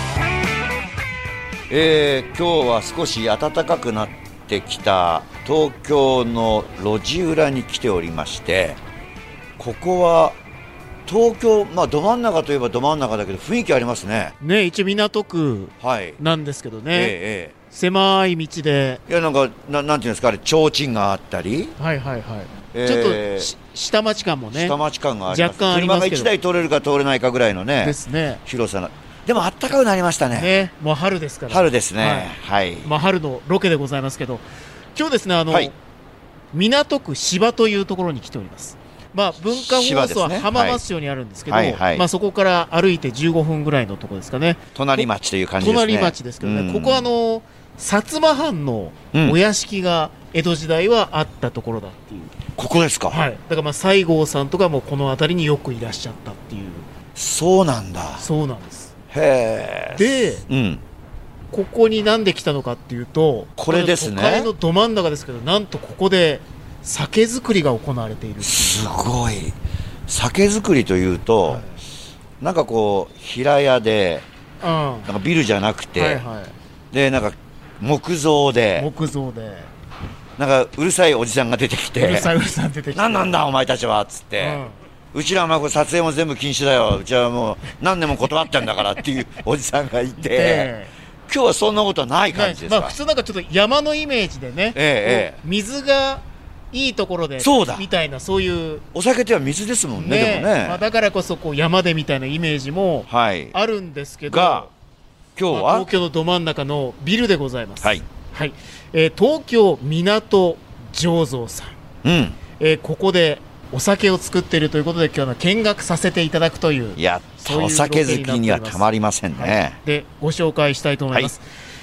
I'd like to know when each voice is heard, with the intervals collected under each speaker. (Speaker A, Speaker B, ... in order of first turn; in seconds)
Speaker A: 1.7-8.8, 9.6-10.4, 11.1-14.3, 15.8-16.2, 16.9-17.6, 19.1-21.8, 22.7-23.5, 24.5-30.5, 31.5-32.9, 39.5-40.8, 41.5-42.1, 44.8-47.1, 52.6-53.2, 57.1-58.3, 59.1-60.8, 63.6-64.5, 68.4-69.6, 70.1-71.7, 72.4-74.2, 75.1-76.2, 76.9-78.9, 80.4-82.3, 82.9-84.6, 85.1-90.7, 91.3-93.0, 94.7-95.4, 97.4-97.9, 99.0-100.8, 103.1-103.5, 104.3-104.7, 105.4-105.9, 112.0-112.4, 117.0-119.8
Speaker B: 14.4-17.1, 17.7-19.0, 21.8-24.8, 25.3-26.3, 27.8-28.4, 30.3-34.4, 35.0-35.8, 36.5-45.1, 45.6-52.4, 53.1-56.9, 58.2-58.9, 59.9-60.4, 61.5-68.9, 71.5-71.8, 74.6-75.1, 76.0-76.6, 78.8-79.7, 82.0-83.3, 84.4-84.8, 90.2-90.9, 92.3-98.9, 100.0-104.7, 105.5-111.8, 112.6-121.4